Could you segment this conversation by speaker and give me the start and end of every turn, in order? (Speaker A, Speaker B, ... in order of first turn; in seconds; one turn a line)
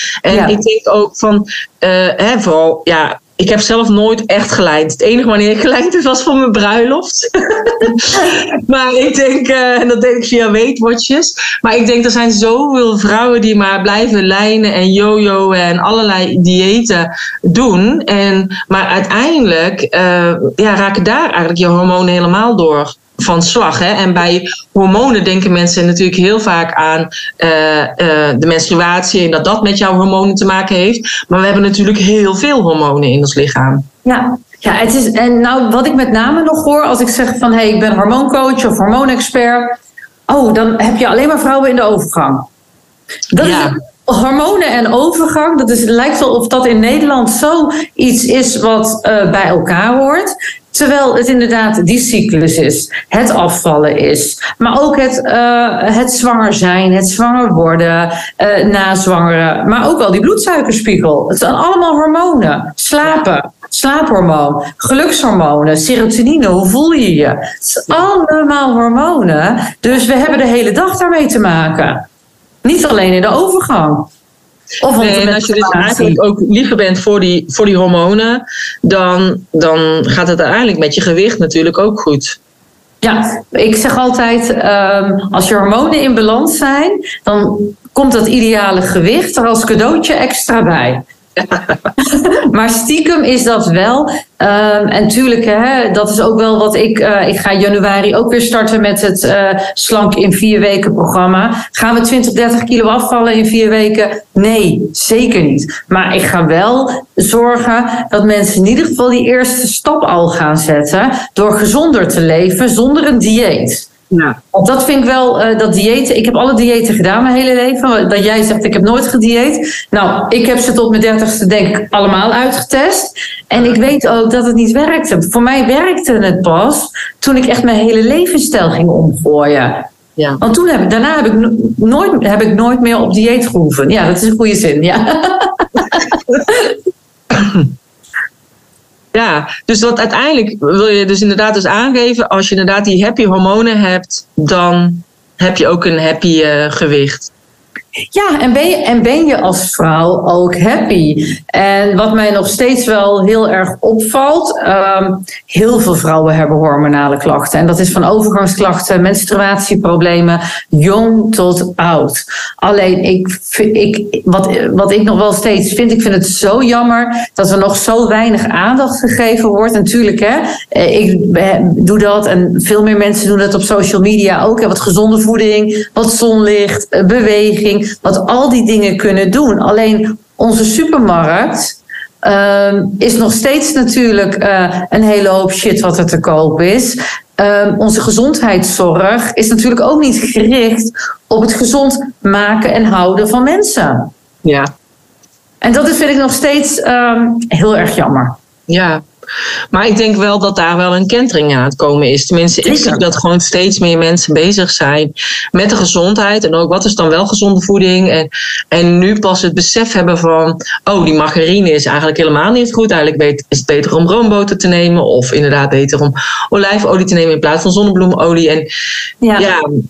Speaker A: 0.2-33.9
Speaker B: 0.3-0.6
Speaker B: 34.0-42.5
Speaker B: 43.3-72.1
Speaker A: 43.4-43.8
Speaker B: 72.6-74.1
Speaker B: 74.8-76.2
Speaker A: 75.0-82.4
Speaker B: 83.0-91.0
Speaker A: 91.4-91.8
Speaker B: 92.0-113.9
Speaker A: 114.1-114.4
Speaker B: 114.5-129.9
Speaker B: 130.4-136.0
Speaker A: 139.1-147.3
Speaker B: 148.1-194.1
Speaker B: 195.6-198.4
Speaker A: 198.7-199.0
Speaker A: 199.7-218.7
Speaker B: 202.6-203.0
Speaker B: 219.2-219.5